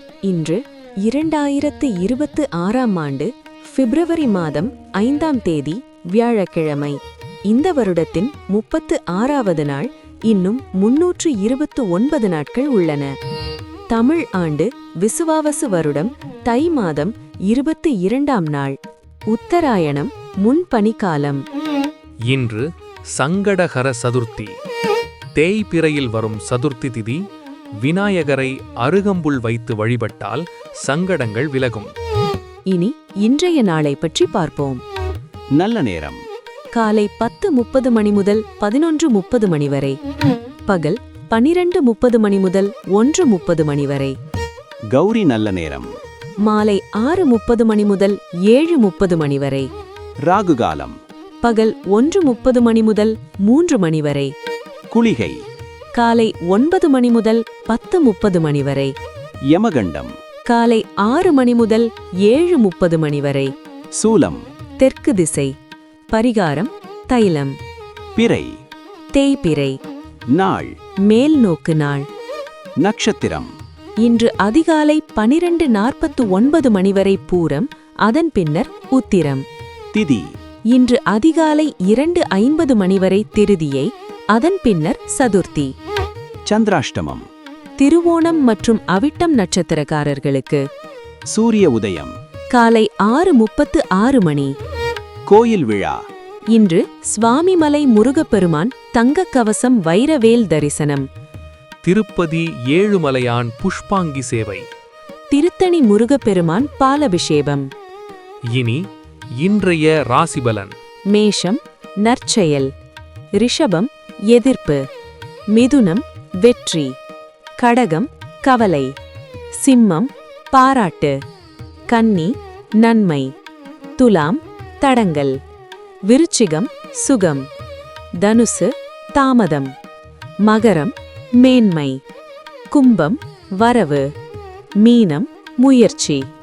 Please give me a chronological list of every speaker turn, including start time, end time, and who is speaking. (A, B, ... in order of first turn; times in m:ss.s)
0:00.2-0:07.0 A
0:07.5-0:13.1 A
0:13.9-0:18.8 A
0:19.3-0:21.4 A
0:22.3-0:24.5 B
0:25.3-0:27.2 B
0:27.8-0:31.9 B
0:32.7-0:34.8 A
0:35.6-0:36.2 C
0:36.7-0:40.0 A
0:40.7-0:44.1 A
0:44.9-0:45.9 C
0:46.4-0:49.7 A
0:50.2-0:51.0 C
0:51.4-0:54.3 A
0:54.9-0:55.4 C
0:55.9-0:58.9 A
0:59.5-1:00.1 C
1:00.5-1:03.5 A
1:03.9-1:04.4 C
1:04.8-1:05.5 A
1:06.1-1:07.5 A
1:08.2-1:08.5 C
1:09.1-1:09.8 A
1:10.3-1:10.7 C
1:11.1-1:12.0 A
1:12.8-1:13.5 C
1:14.0-1:19.4 A
1:19.9-1:20.2 C
1:20.7-1:25.7 A
1:26.5-1:27.2 C
1:27.8-1:30.6 A
1:31.3-1:32.1 C
1:32.5-1:34.5 A
1:35.3-1:36.0 C
1:36.5-1:41.0 A
1:41.8-1:44.6 B
1:45.3-1:47.7 A
1:48.5-1:48.8 B
1:49.4-1:50.7 B
1:51.1-1:52.7 A
1:53.4-1:54.8 A
1:55.5-1:56.9 A
1:57.6-1:58.9 A
1:59.6-2:01.2 A
2:01.9-2:03.3 A
2:04.0-2:05.3 A
2:06.1-2:07.4 A
2:08.2-2:09.7 A
2:10.4-2:12.0 A
2:12.7-2:14.0 A
2:14.8-2:16.2 A